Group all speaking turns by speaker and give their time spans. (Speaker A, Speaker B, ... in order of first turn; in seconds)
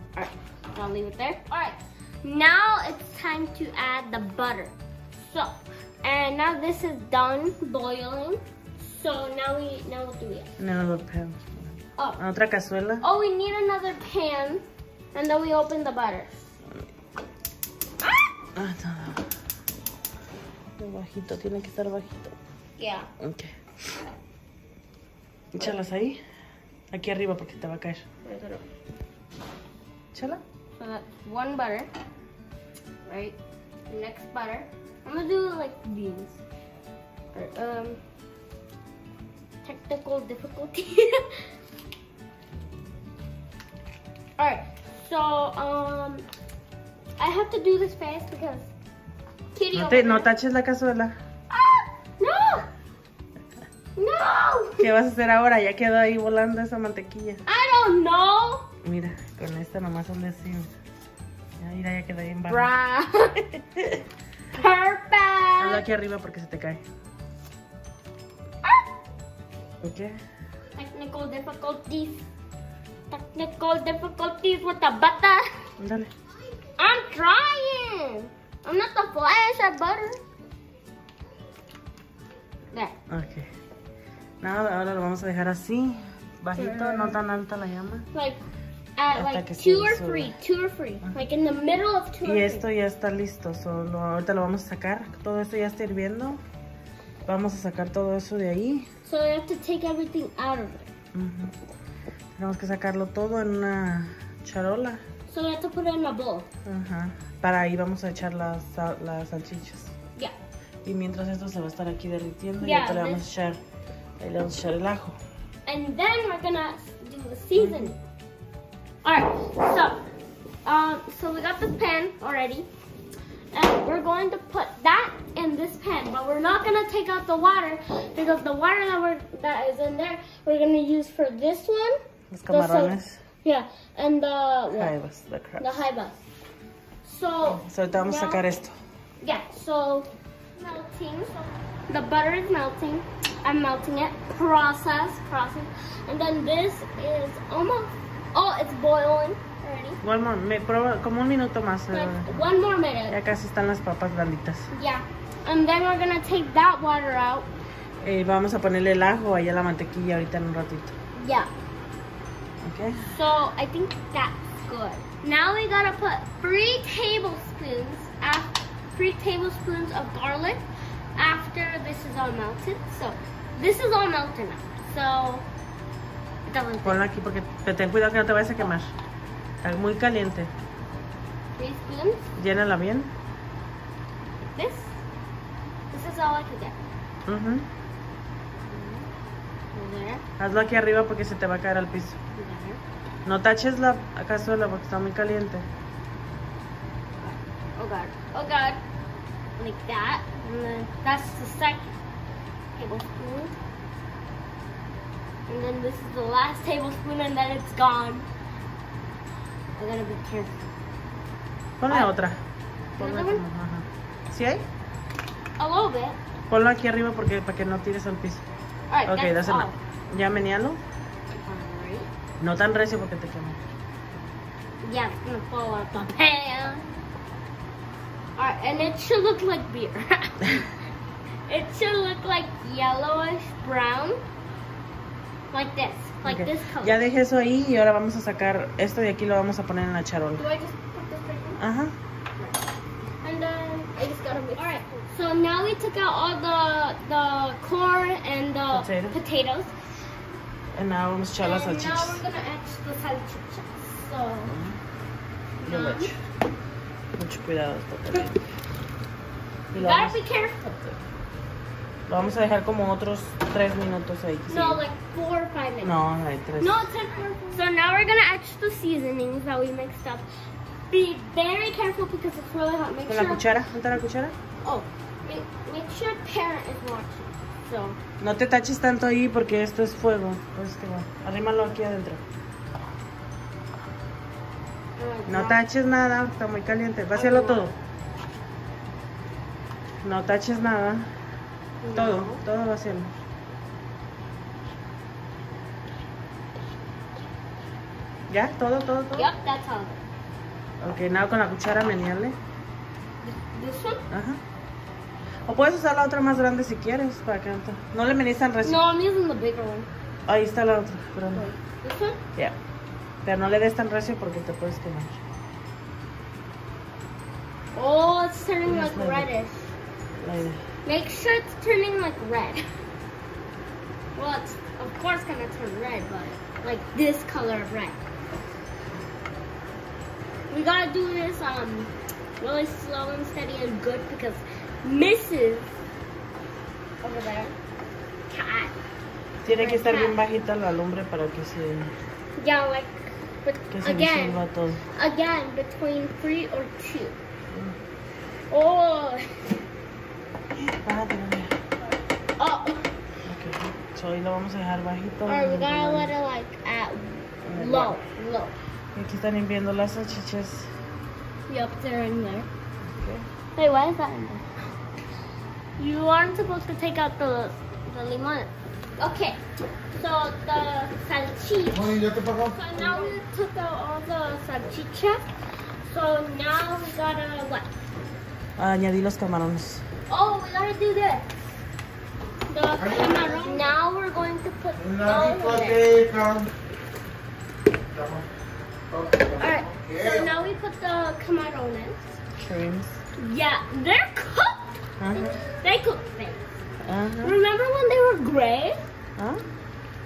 Speaker A: 0.2-10.5, 13.0-14.6, 15.1-16.3, 22.8-23.1, 28.2-28.6, 30.8-31.9, 33.1-33.4, 33.9-36.4, 37.3-38.0, 39.6-41.4, 44.4-46.3, 47.2-48.7, 49.5-50.3, 51.5-52.7, 54.0-54.9, 57.5-58.7, 62.5-63.6, 64.5-65.8, 70.8-72.2, 73.1-75.5, 76.8-80.2, 82.7-83.0, 86.6-87.2, 88.1-88.4, 89.0-92.7, 99.0-100.9, 105.3-106.5, 112.6-113.3, 115.7-118.0, 119.0-120.0, 120.7-122.7, 123.5-134.9, 135.6-136.2, 137.0-138.4, 139.2-150.0, 151.9-153.2, 154.7-157.5, 161.2-161.5, 163.1-170.7, 171.2-175.5, 176.5-177.0, 181.6-182.3, 184.5-185.0, 185.9-186.8, 188.7-189.1, 189.8-190.2, 192.3-192.8, 197.2-198.8, 199.6-202.0, 202.8-203.5, 205.5-208.3, 209.8-210.7, 213.0-213.4, 215.6-216.2, 218.9-219.8, 221.3-222.1, 224.8-226.9, 228.4-230.7, 231.5-234.2, 235.5-237.1, 240.4-241.6, 243.2-249.7, 251.4-254.6, 255.6-256.1, 259.7-261.0, 264.5-266.0, 266.6-270.3, 270.9-273.4, 274.6-278.0, 285.0-285.6, 287.1-287.6, 291.8-292.4, 299.1-300.0, 303.2-304.1, 308.6-309.9, 311.4-312.2, 317.7-319.7, 320.9-322.6, 324.1-328.0, 330.5-335.7, 337.0-337.6, 338.3-338.8, 339.5-340.2, 342.4-347.2, 348.5-349.2, 352.4-352.9, 355.3-358.6, 361.5-362.5, 363.6-364.4, 365.8-369.4, 369.9-375.2, 375.8-377.7, 380.1-381.3, 382.5-386.3, 389.3-392.2, 393.2-396.6, 397.2-398.8
Speaker B: 10.6-13.1, 18.6-19.3, 20.8-22.4, 23.2-23.6, 25.5-26.2, 26.9-28.1, 30.1-30.4, 49.7-51.1, 54.8-57.4, 58.8-60.7, 61.6-62.7, 65.6-66.8, 69.8-70.1, 75.8-76.1, 83.1-83.5, 84.4-88.1, 89.2-90.3, 92.2-96.4, 97.3-98.9, 101.1-101.5, 102.4-105.0, 106.7-109.9, 110.8-113.6, 114.2-115.2, 117.6-117.9, 132.3-133.2, 134.7-135.9, 137.5-138.8, 150.0-152.5, 153.1-154.7, 158.0-160.9, 162.6-163.1, 176.8-178.9, 179.6-180.5, 182.4-183.1, 187.3-187.7, 190.4-192.2, 193.3-195.7, 211.8-212.4, 213.0-214.7, 216.5-218.4, 219.1-220.8, 222.4-223.6, 236.2-240.4, 241.6-241.9, 248.7-249.2, 250.7-252.2, 254.5-254.8, 255.6-256.2, 257.2-258.4, 259.7-260.2, 262.1-264.8, 265.8-266.9, 273.1-274.4, 278.2-282.2, 285.3-287.8, 290.0-291.1, 291.9-293.1, 298.3-299.3, 300.8-302.4, 304.1-304.4, 305.5-308.8, 310.3-311.5, 313.2-315.2, 318.7-319.3, 320.2-320.6, 339.4-341.9, 343.7-344.8, 347.5-347.8, 350.6-351.5, 353.3-356.1, 357.4-358.0, 358.9-360.7, 362.9-363.3, 378.6-379.9, 392.4-393.0, 395.0-395.4, 396.8-397.4